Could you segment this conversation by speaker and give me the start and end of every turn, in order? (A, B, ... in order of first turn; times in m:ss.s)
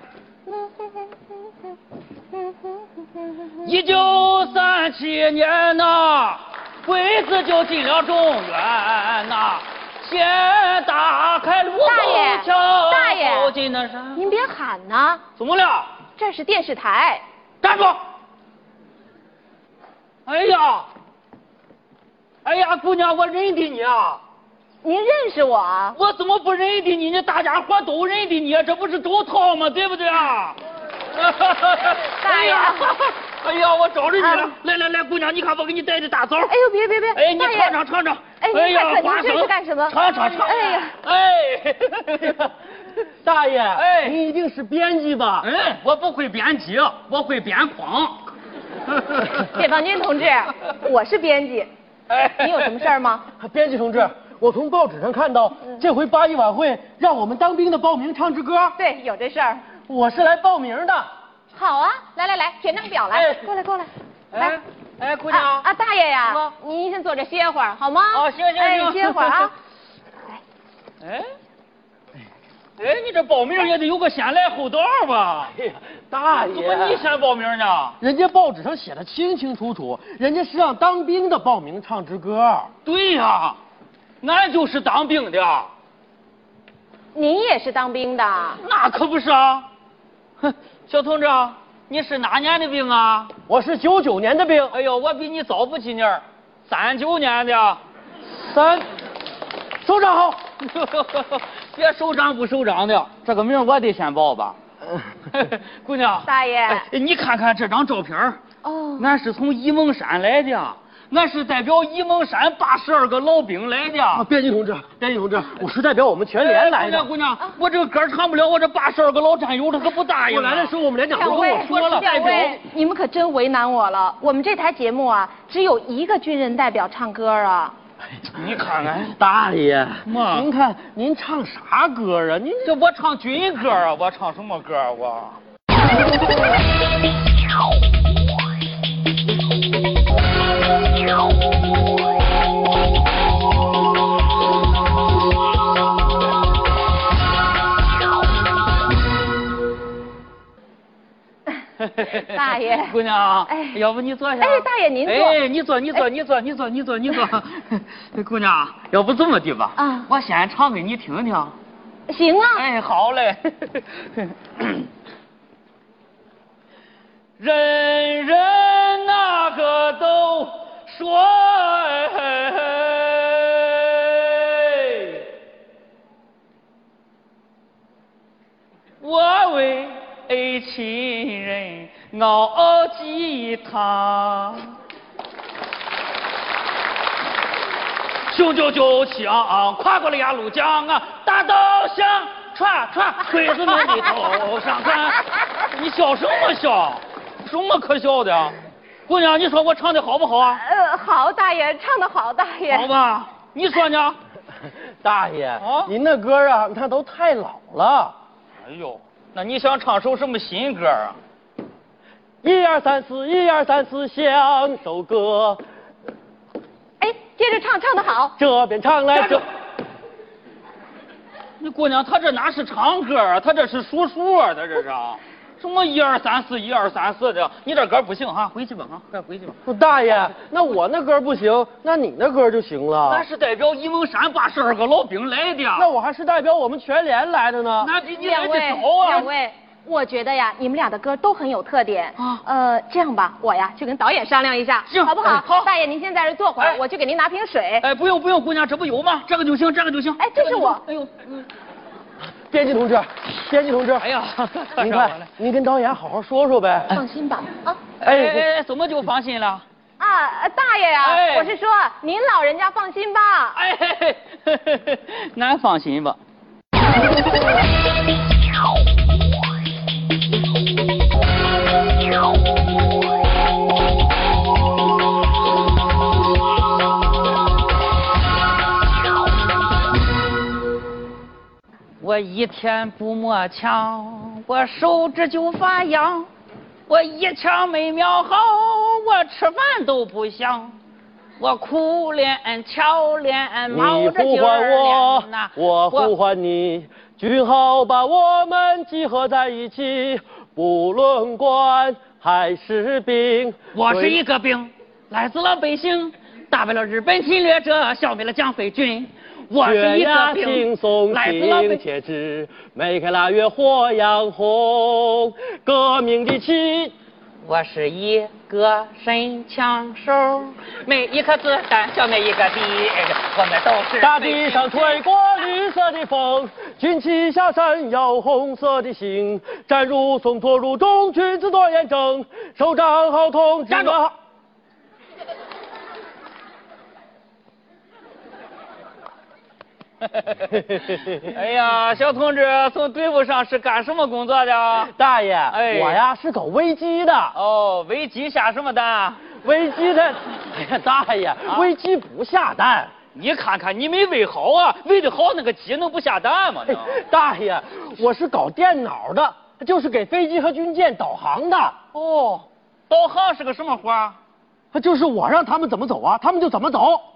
0:00.6-0:00.8 A
0:02.5-0:02.8 A
0:03.6-0:14.2 B
0:11.8-0:13.5 A
0:14.2-0:15.2 A
0:15.4-0:15.9 B
0:16.2-0:17.2 A
0:17.6-0:18.0 B
0:20.2-0:20.9 B
0:22.4-0:24.2 B
0:24.8-0:26.0 A
0:26.0-0:30.6 B
0:31.1-0:36.5 B
0:32.2-0:33.0 A
0:34.2-0:34.5 A
0:36.4-0:37.8 A
0:37.1-0:42.5 B
0:38.4-0:40.9 A
0:43.2-0:45.5 C
0:43.7-0:44.2 B
0:45.4-0:48.3 B
0:48.9-0:49.5 B
0:49.4-0:51.7 A
0:52.1-0:52.8 B
0:52.3-0:53.3 A
0:53.4-0:58.8 C
0:58.8-0:59.6 A
0:59.9-1:01.1 C
1:01.5-1:04.6 A
1:03.1-1:03.5 C
1:04.3-1:05.7 B
1:05.3-1:09.5 A
1:06.2-1:06.5 B
1:08.1-1:09.5 B
1:11.0-1:11.3 B
1:12.8-1:15.5 B
1:15.5-1:17.1 C
1:16.3-1:18.0 B
1:18.0-1:22.7 C
1:22.8-1:23.6 B
1:24.2-1:25.7 B
1:27.1-1:28.6 A
1:28.6-1:29.7 B
1:30.4-1:33.3 B
1:33.4-1:34.7 C
1:34.7-1:37.8 B
1:38.3-1:38.9 C
1:39.8-1:40.3 C
1:40.6-1:44.6 B
1:45.3-1:48.4 B
1:46.2-1:46.9 A
1:48.6-1:49.1 A
1:49.0-1:54.3 B
1:54.1-1:57.1 C
1:56.4-2:02.6 B
2:00.3-2:02.1 C
2:01.1-2:07.8 A
2:08.3-2:09.2 B
2:09.2-2:12.7 C
2:10.0-2:10.5 B
2:12.6-2:15.4 B
2:31.8-2:41.6 B
2:32.2-2:33.0 A
2:33.5-2:33.8 A
2:34.4-2:35.4 A
2:39.8-2:40.1 A
2:42.1-2:42.6 A
2:42.5-2:44.8 B
2:47.4-2:55.3 B
2:59.0-3:04.8 B
3:08.3-3:18.5 B
3:19.1-3:20.6 B
3:20.5-3:22.9 A
3:22.7-3:24.2 B
3:25.0-3:28.1 C
3:25.6-3:25.9 B
3:28.6-3:31.2 B
3:32.4-3:35.6 C
3:37.0-3:38.4 A
3:38.4-3:39.4 C
3:41.6-3:49.6 B
3:49.6-3:53.2 C
3:53.0-3:55.9 B
3:55.7-3:57.9 C
3:57.8-3:59.3 B
3:58.0-4:07.8 A
4:04.9-4:05.7 B
4:07.8-4:11.5 B
4:10.2-4:10.8 A
4:12.5-4:14.1 C
4:14.0-4:15.3 B
4:14.7-4:17.0 C
4:16.9-4:17.8 A
4:18.0-4:19.6 B
4:18.0-4:18.5 C
4:20.0-4:23.6 A
4:21.0-4:21.5 B
4:23.5-4:26.2 B
4:42.0-4:46.3 B
4:46.9-4:50.8 B
4:51.4-4:56.1 B
4:53.7-5:04.2 C
5:03.7-5:11.8 B
5:09.6-5:16.9 C
5:17.4-5:25.0 B
5:24.0-5:34.1 C
5:33.7-5:34.0 B
5:40.1-5:44.9 B
5:44.8-5:47.3 C
5:45.5-5:46.0 B
5:47.3-5:49.3 B
5:49.3-5:52.9 C
5:51.5-5:51.7 B
5:53.1-5:57.0 B
5:56.7-6:02.1 C
6:02.1-6:04.2 B
6:04.7-6:07.0 C